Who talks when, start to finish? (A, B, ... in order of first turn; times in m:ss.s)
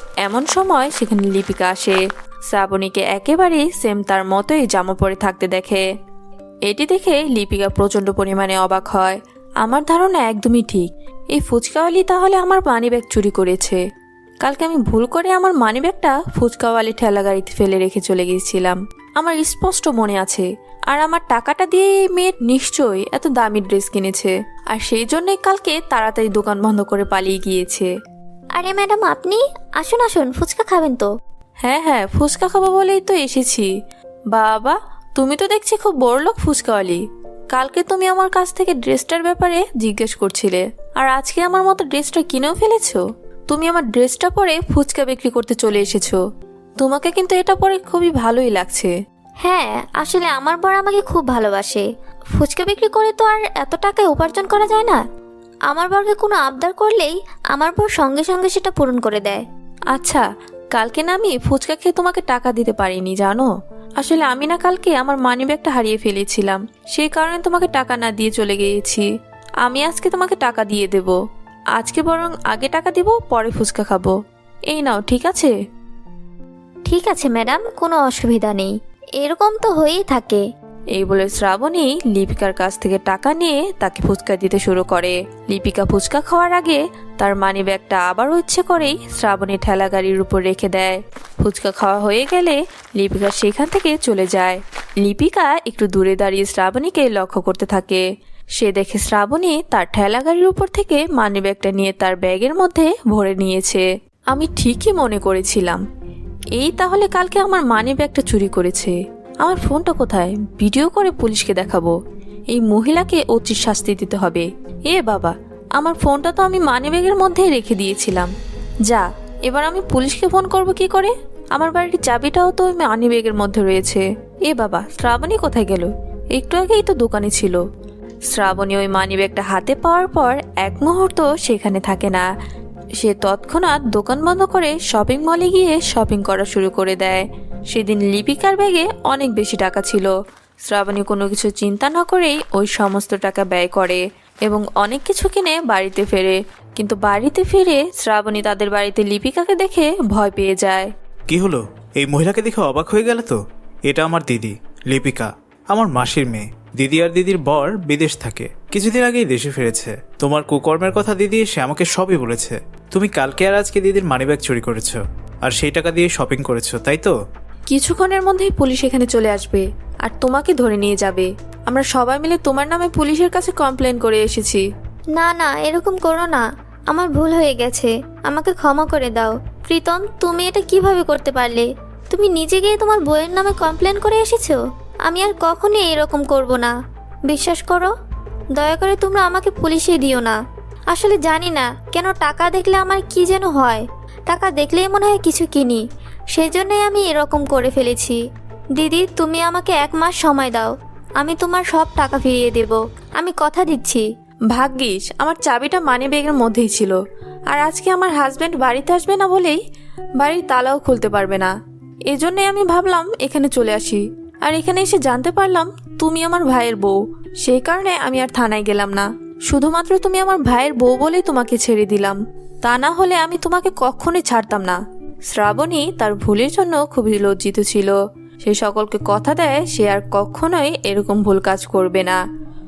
0:00.2-0:05.8 A
0:06.7-0:13.8 A
0:14.4-0:27.9 A
0:28.6-0:31.1 B
0:31.6-0:33.7 A
0:34.3-0:46.2 A
0:46.8-0:48.9 A
0:49.4-0:51.8 B
0:52.4-0:55.0 B
0:55.7-0:59.4 B
0:59.9-1:09.1 A
1:09.6-1:11.2 A
1:11.8-1:14.2 A
1:14.7-1:15.5 A
1:16.9-1:20.4 B
1:20.9-1:38.0 A
1:38.6-1:45.8 A
1:46.6-1:51.9 A
1:52.5-1:58.3 A
1:58.9-2:07.6 A
2:08.3-2:12.2 A
2:13.0-2:20.1 A
2:20.6-2:30.9 A
2:31.3-2:47.1 C
2:47.7-2:54.6 A
2:55.2-3:06.7 B
3:07.3-3:07.9 B
3:08.6-3:10.4 B
3:10.9-3:15.8 B
3:16.3-3:18.2 B
3:18.8-3:24.1 B
3:24.5-3:27.0 A
3:27.5-3:29.6 A
3:30.2-3:31.5 A
3:32.1-3:52.2 A